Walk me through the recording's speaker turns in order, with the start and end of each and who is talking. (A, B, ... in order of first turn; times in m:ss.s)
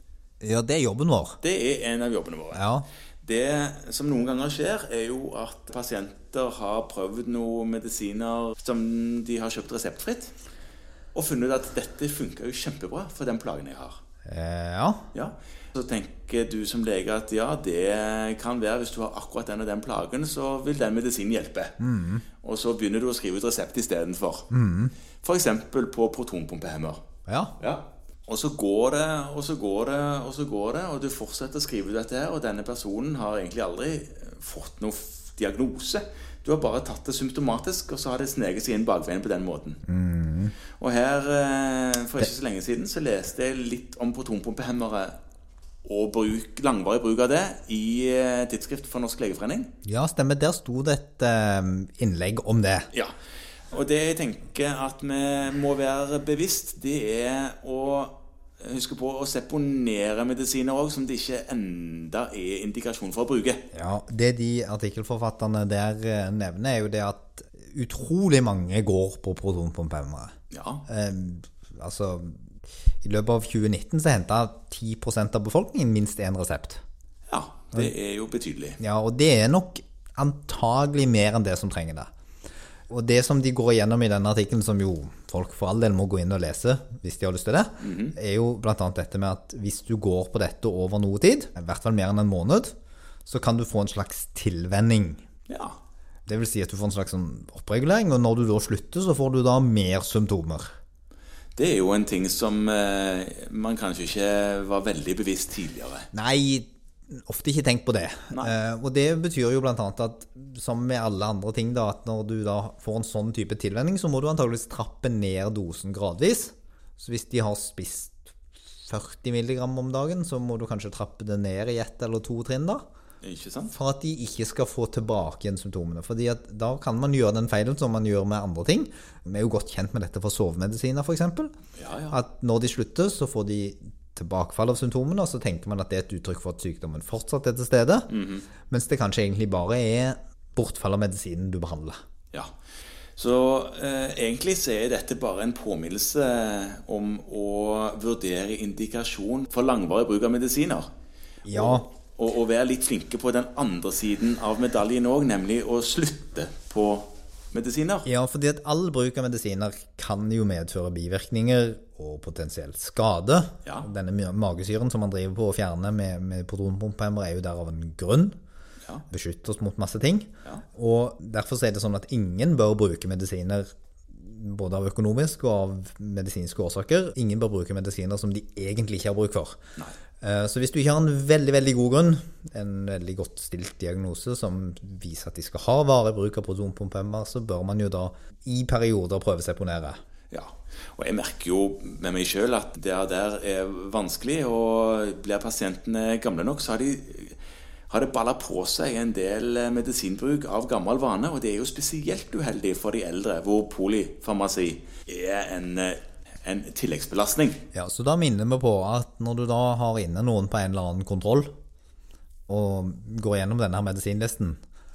0:00.4-0:01.4 A
0:01.4-0:02.6 B
0:02.5-0:02.8 A
0:03.2-0:10.3 B
0:11.1-0:14.0 B
0:14.2-0:15.1 A
0:15.1-0:21.8 B
0:21.8-0:22.2 A
0:22.4-0:24.5 B
0:24.5-0:24.9 A
0:25.2-0:27.0 B
0:27.3-0:27.6 A
0:27.6-0:39.8 B
0:39.8-0:40.5 A
0:40.8-0:45.1 B
0:45.8-0:49.7 B
0:49.8-0:52.9 A
0:53.7-1:03.6 B
1:03.7-1:10.3 A
1:10.5-1:10.8 B
1:10.9-1:12.4 A
1:13.0-1:16.8 A
1:17.3-1:18.8 B
1:18.8-1:22.1 A
1:22.9-1:32.7 A
1:27.8-1:28.2 B
1:33.2-1:35.2 A
1:35.5-1:35.8 B
1:36.3-1:40.7 A
1:41.6-1:46.1 B
1:46.1-2:02.8 A
2:03.2-2:03.7 B
2:03.7-2:11.5 A
2:11.8-2:12.2 B
2:12.1-2:18.1 A
2:18.1-2:18.4 B
2:18.7-2:22.0 A
2:23.2-2:30.9 B
2:31.4-2:31.9 A
2:31.5-2:38.1 B
2:38.0-2:48.4 A
2:49.1-2:59.6 A
3:00.2-3:10.0 A
3:10.3-3:17.4 B
3:17.9-3:27.6 B
3:27.7-3:31.5 A
3:32.5-3:34.6 A